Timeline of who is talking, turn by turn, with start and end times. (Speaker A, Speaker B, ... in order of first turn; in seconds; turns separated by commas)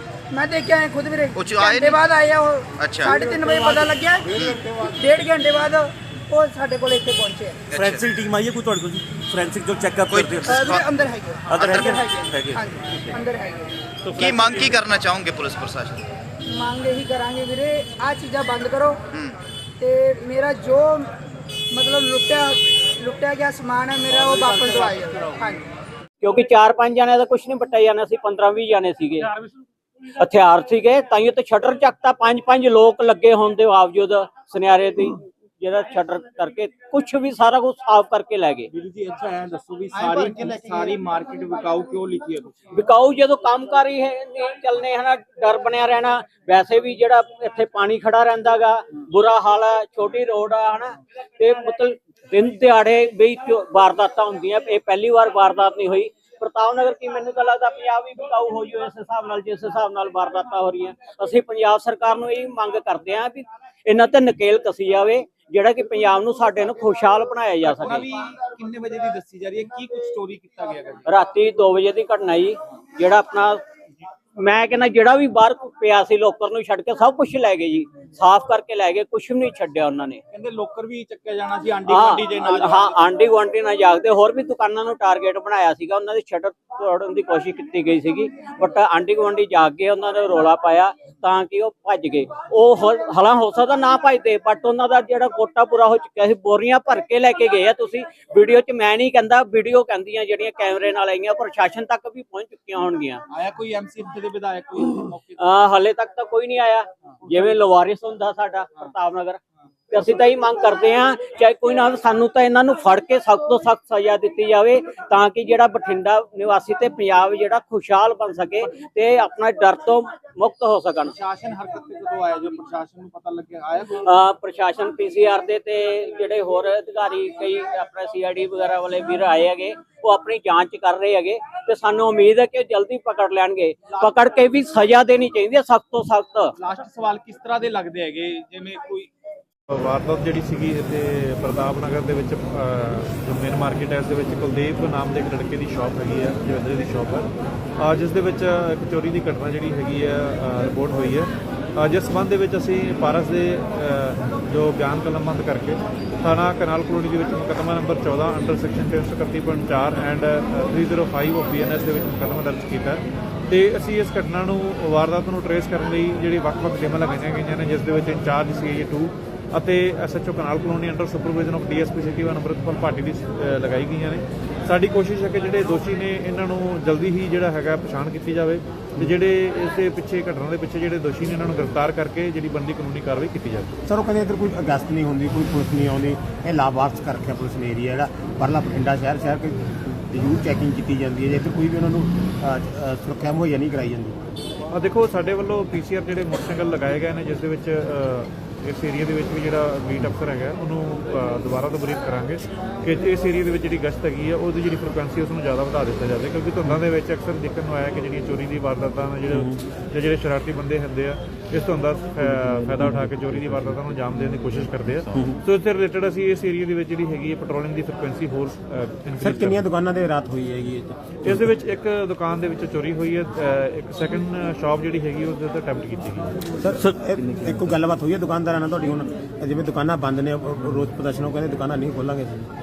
Speaker A: 0.3-7.7, Speaker B: 1.4-2.0, Speaker B: 2.8-3.1, Speaker B: 4.3-4.6, Speaker B: 7.7-8.1, Speaker C: 7.7-10.5, Speaker B: 10.1-10.9, Speaker A: 10.4-13.7, Speaker B: 11.5-12.1, Speaker C: 11.6-13.0, Speaker C: 14.0-14.8, Speaker B: 14.1-16.1, Speaker A: 16.4-19.0, Speaker A: 19.8-21.1, Speaker A: 21.7-25.7, Speaker D: 26.2-29.4, Speaker D: 30.2-38.7, Speaker E: 38.7-42.5, Speaker D: 42.7-68.1, Speaker E: 67.6-71.1, Speaker D: 71.0-73.6, Speaker D: 74.4-80.2, Speaker E: 80.3-83.0, Speaker D: 81.9-103.2, Speaker E: 103.3-105.6, Speaker D: 105.4-109.4, Speaker D: 109.9-121.1, Speaker E: 121.1-124.2, Speaker D: 124.0-136.5, Speaker E: 133.9-134.3, Speaker E: 136.6-139.1, Speaker F: 139.7-183.8, Speaker G: 183.8-194.2, Speaker F: 194.7-219.6, Speaker C: 212.4-213.2, Speaker C: 215.1-215.4, Speaker G: 219.2-221.0, Speaker F: 221.2-226.3, Speaker G: 226.6-232.5, Speaker C: 226.8-227.7